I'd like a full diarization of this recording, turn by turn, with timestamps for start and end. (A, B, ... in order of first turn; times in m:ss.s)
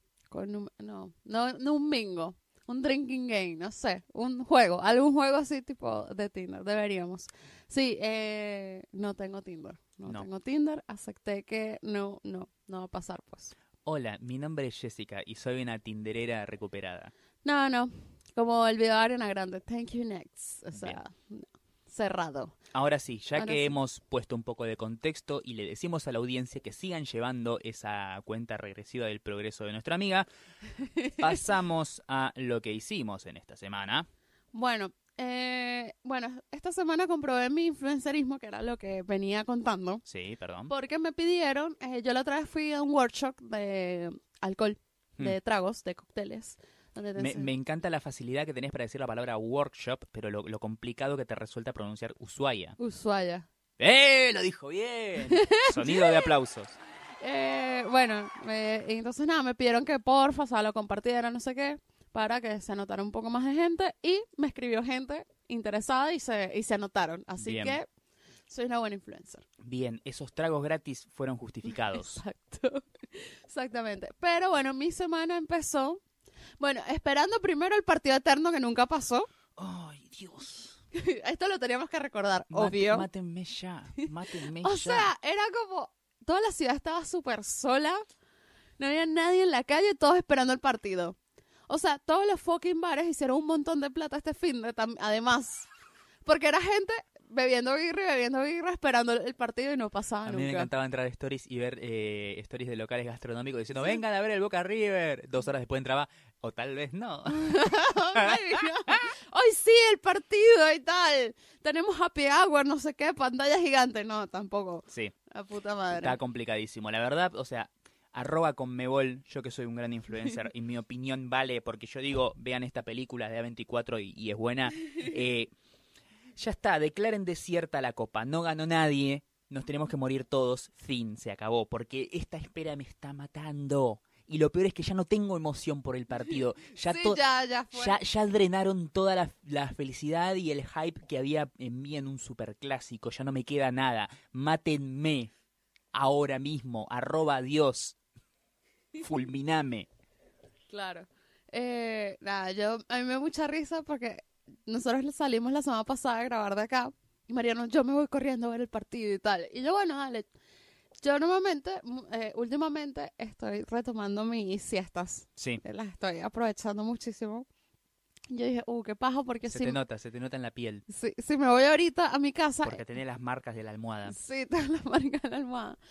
0:00.3-0:13.5 A
0:13.8-0:17.1 B
0:17.4-0:22.6 A
0:20.7-0:21.0 B
0:22.7-0:30.3 B
0:23.4-0:23.7 A
0:30.7-0:31.4 A
0:31.2-0:34.1 B
0:34.5-0:40.0 A
0:40.0-0:40.7 B
0:40.7-0:47.5 A
0:47.2-0:52.8 B
0:52.8-0:53.5 A
0:53.8-0:56.8 B
0:55.2-0:56.3 A
0:57.2-1:07.9 A
1:07.4-1:07.8 B
1:08.5-1:09.4 A
1:09.6-1:12.2 B
1:11.9-1:16.0 A
1:16.6-1:19.3 A
1:19.6-1:20.8 B
1:20.9-1:23.1 A
1:22.5-1:25.1 B
1:24.6-1:28.0 A
1:28.8-1:31.2 A
1:31.7-1:35.7 A
1:36.2-1:40.7 A
1:40.2-1:49.0 B
1:47.3-1:56.2 A
1:55.9-2:05.5 B
2:06.4-2:17.2 B
2:16.8-2:18.0 A
2:17.7-2:25.3 B
2:25.9-2:28.0 B
2:29.0-2:29.9 B
2:30.7-2:40.3 A
2:41.0-2:47.5 A
2:45.4-2:45.6 B
2:48.3-2:49.8 A
2:49.5-2:50.8 B
2:50.9-2:52.8 A
2:52.6-2:54.2 B
2:54.1-2:55.8 A